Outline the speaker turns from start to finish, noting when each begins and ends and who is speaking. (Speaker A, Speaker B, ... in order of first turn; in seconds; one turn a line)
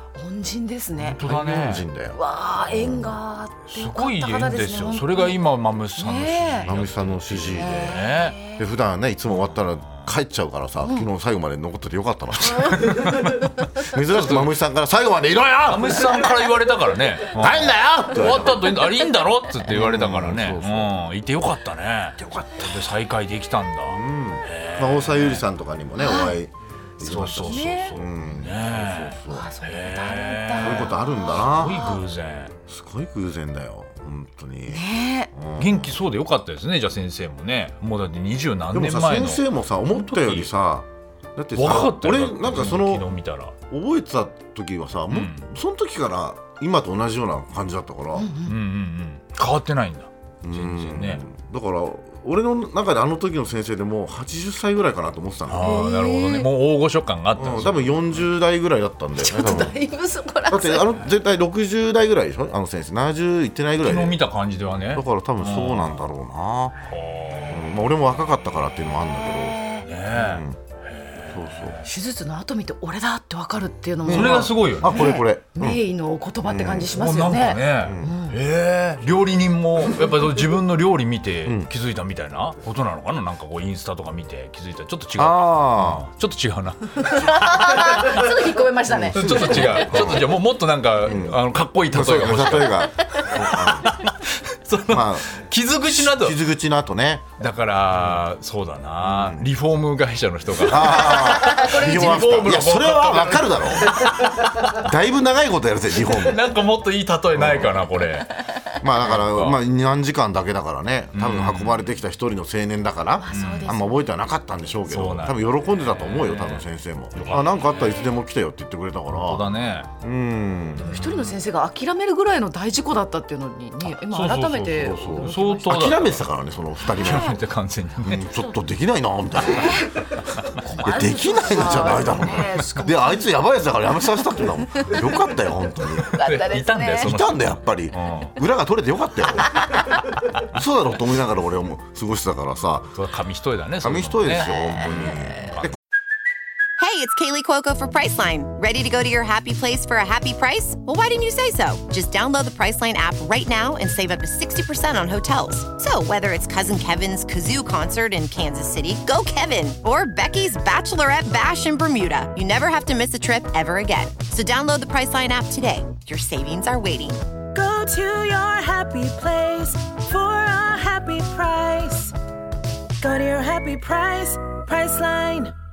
Speaker A: 0.2-1.2
Speaker B: 1.0-1.9
Speaker C: 1.2-3.2
Speaker A: 2.2-5.4
Speaker B: 2.7-8.4
Speaker A: 6.0-6.7
Speaker C: 6.6-8.0
Speaker A: 7.5-8.6
Speaker C: 8.6-16.5
Speaker B: 9.3-10.1
Speaker B: 12.5-14.5
Speaker B: 15.7-25.4
Speaker C: 17.3-18.9
Speaker C: 19.6-21.0
Speaker C: 22.2-22.8
Speaker C: 23.9-29.5
Speaker A: 26.0-26.4
Speaker B: 27.0-32.5
Speaker A: 27.5-28.0
Speaker A: 29.3-32.0
Speaker C: 30.6-32.0
Speaker C: 32.7-36.0
Speaker A: 34.7-35.3
Speaker B: 35.6-40.5
Speaker C: 38.7-43.1
Speaker B: 41.6-43.5
Speaker C: 43.7-48.3
Speaker B: 45.1-45.5
Speaker A: 48.2-48.5
Speaker B: 48.4-51.2
Speaker C: 50.4-55.9
Speaker B: 55.5-58.2
Speaker A: 55.7-56.2
Speaker D: 55.9-56.5
Speaker C: 57.4-59.8
Speaker A: 59.2-60.8
Speaker C: 60.5-64.2
Speaker B: 63.8-66.0
Speaker C: 64.9-66.9
Speaker B: 66.9-67.7
Speaker C: 67.5-70.6
Speaker A: 69.3-69.9
Speaker B: 69.8-71.8
Speaker C: 71.3-71.8
Speaker A: 71.9-78.3
Speaker C: 74.1-75.8
Speaker B: 74.1-75.2
Speaker C: 76.5-77.1
Speaker B: 76.9-88.2
Speaker C: 77.7-78.2
Speaker C: 81.5-81.7
Speaker C: 85.2-86.1
Speaker A: 87.1-89.7
Speaker C: 88.9-90.4
Speaker B: 89.1-96.4
Speaker C: 91.0-94.0
Speaker C: 94.9-97.3
Speaker B: 97.4-104.8
Speaker C: 99.0-99.5
Speaker C: 100.5-106.4
Speaker B: 106.0-108.3
Speaker C: 107.3-107.9
Speaker C: 108.8-119.5
Speaker B: 109.0-109.6
Speaker B: 111.1-111.9
Speaker A: 113.2-114.1
Speaker B: 113.3-113.8
Speaker B: 114.9-118.1
Speaker B: 119.2-119.9
Speaker C: 120.0-121.0
Speaker A: 120.8-125.7
Speaker B: 120.8-121.4
Speaker B: 123.8-126.2
Speaker C: 124.8-127.4
Speaker B: 126.9-128.3
Speaker C: 128.0-130.2
Speaker A: 129.6-129.9
Speaker A: 130.6-133.2
Speaker C: 130.8-136.2
Speaker B: 136.0-138.4
Speaker A: 136.2-137.1
Speaker C: 137.0-139.7
Speaker C: 140.4-142.9
Speaker B: 142.9-145.7
Speaker C: 143.8-145.7
Speaker E: 146.8-167.2
Speaker D: 167.5-172.1
Speaker D: 173.0-175.5